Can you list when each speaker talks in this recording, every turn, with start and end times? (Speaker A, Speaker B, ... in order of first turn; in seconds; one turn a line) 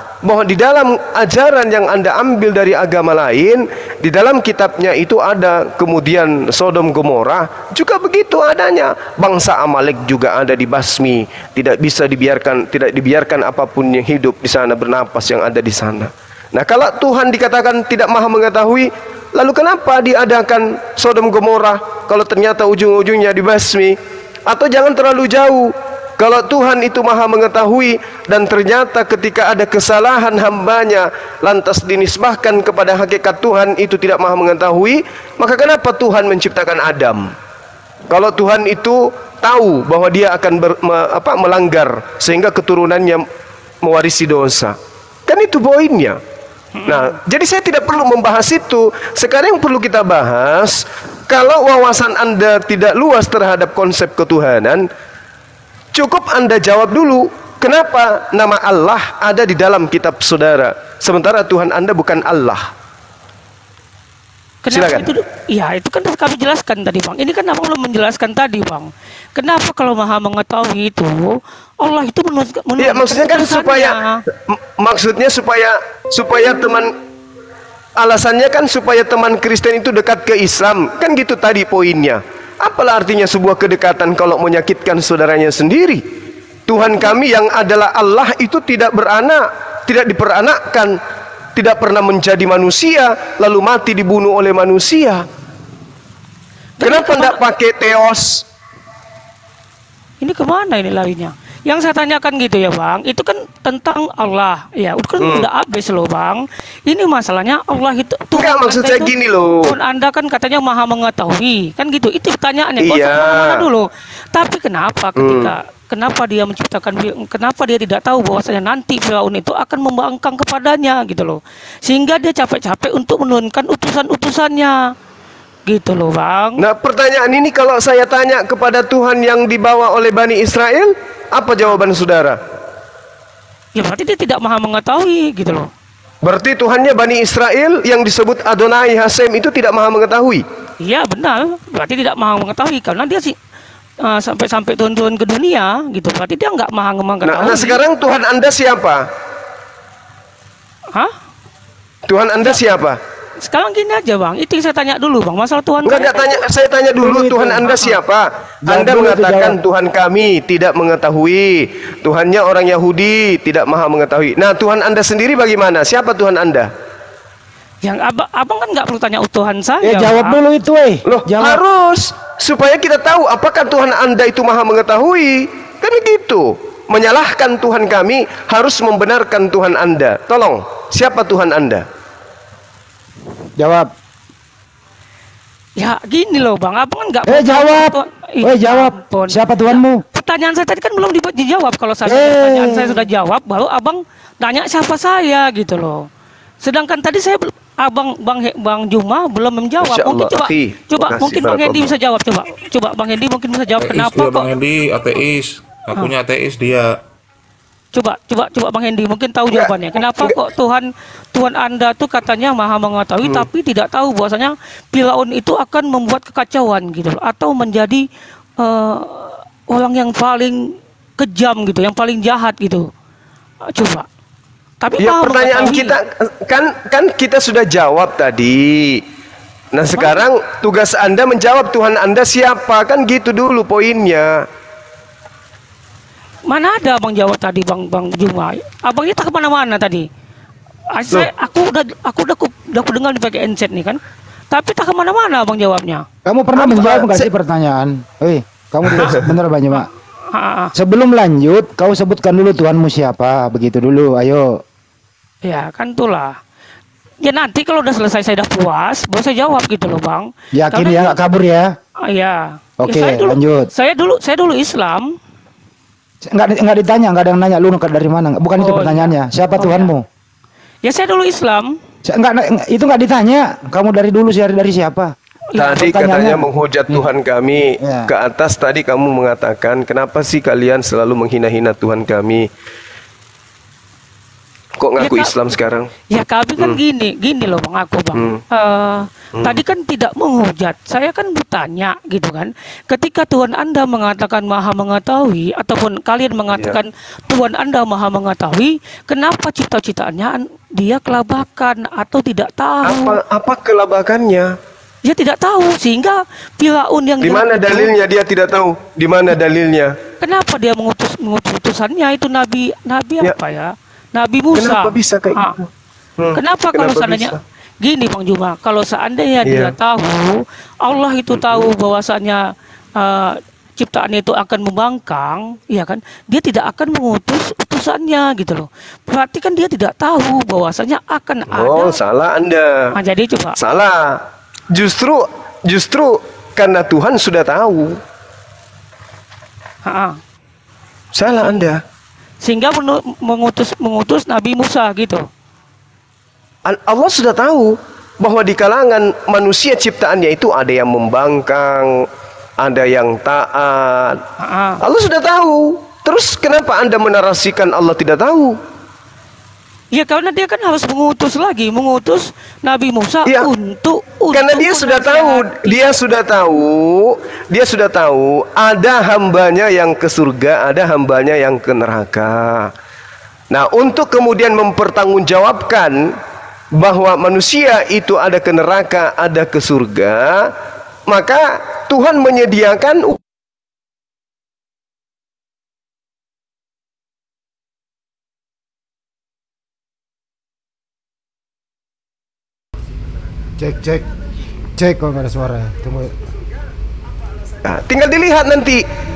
Speaker A: 0.2-37.3
Speaker A: 38.1-43.2
Speaker A: 43.8-44.8
Speaker A: 45.3-46.2
Speaker B: 46.8-47.1
Speaker A: 46.9-54.9
Speaker A: 55.9-62.6
Speaker B: 64.6-74.2
Speaker A: 64.7-65.1
Speaker A: 72.8-74.0
Speaker A: 74.5-76.9
Speaker A: 78.0-86.0
Speaker A: 86.7-91.0
Speaker A: 91.6-95.2
Speaker B: 96.8-97.5
Speaker A: 96.8-98.5
Speaker B: 100.2-109.1
Speaker A: 105.2-105.5
Speaker A: 108.3-109.7
Speaker B: 109.6-124.8
Speaker A: 112.8-113.6
Speaker A: 115.2-115.5
Speaker B: 125.7-126.6
Speaker A: 126.6-132.4
Speaker B: 133.8-135.7
Speaker A: 136.2-140.4
Speaker B: 140.8-143.4
Speaker B: 144.0-147.8
Speaker A: 147.2-149.0
Speaker A: 152.1-153.0
Speaker B: 152.4-152.8
Speaker B: 153.4-156.4
Speaker A: 155.8-166.7
Speaker C: 157.0-157.6
Speaker B: 157.7-157.9
Speaker C: 158.7-159.6
Speaker B: 167.8-170.4
Speaker C: 169.8-171.6
Speaker A: 171.1-181.8
Speaker C: 183.6-183.9
Speaker B: 185.8-196.1
Speaker C: 187.3-190.0
Speaker C: 192.1-193.1
Speaker B: 196.6-204.5
Speaker A: 199.8-201.9
Speaker D: 203.8-207.0
Speaker B: 207.9-218.1
Speaker A: 209.5-210.3
Speaker B: 218.6-222.9
Speaker B: 223.7-224.1
Speaker B: 224.8-226.0
Speaker A: 225.0-229.0
Speaker A: 229.7-234.4
Speaker B: 230.0-230.2
Speaker B: 236.5-240.1
Speaker B: 240.9-244.0
Speaker B: 244.5-246.1
Speaker C: 246.2-249.9
Speaker A: 246.6-247.3
Speaker A: 248.9-249.2
Speaker B: 249.8-250.7
Speaker C: 250.8-254.6
Speaker B: 255.4-256.4
Speaker B: 257.2-261.2
Speaker C: 260.6-261.8
Speaker B: 262.0-265.2
Speaker C: 262.8-263.7
Speaker C: 266.3-270.1
Speaker B: 268.6-269.9
Speaker B: 270.8-271.8
Speaker C: 272.1-275.1
Speaker B: 275.5-275.9
Speaker A: 275.6-282.5
Speaker C: 275.8-277.1
Speaker C: 277.8-278.1
Speaker A: 284.8-285.9
Speaker B: 285.0-285.5
Speaker B: 286.1-303.2
Speaker A: 296.5-296.8
Speaker A: 302.9-304.5
Speaker B: 305.0-307.9
Speaker A: 307.2-309.9
Speaker B: 310.2-315.5
Speaker A: 314.6-315.7
Speaker A: 316.2-317.4
Speaker B: 316.4-322.4
Speaker A: 319.5-319.8
Speaker A: 321.4-321.7
Speaker B: 323.0-332.0
Speaker A: 331.5-332.8
Speaker B: 332.9-333.6
Speaker A: 333.6-334.2
Speaker A: 334.7-338.0
Speaker B: 339.8-340.2
Speaker A: 341.1-341.8
Speaker B: 342.4-345.2
Speaker A: 346.6-351.9
Speaker A: 352.6-354.2
Speaker B: 354.4-354.8
Speaker A: 354.8-358.6
Speaker B: 359.9-366.0
Speaker A: 364.3-372.7
Speaker A: 373.5-376.1
Speaker A: 376.8-380.5
Speaker A: 381.1-383.2
Speaker C: 393.6-394.1
Speaker C: 394.8-396.1
Speaker A: 397.6-398.8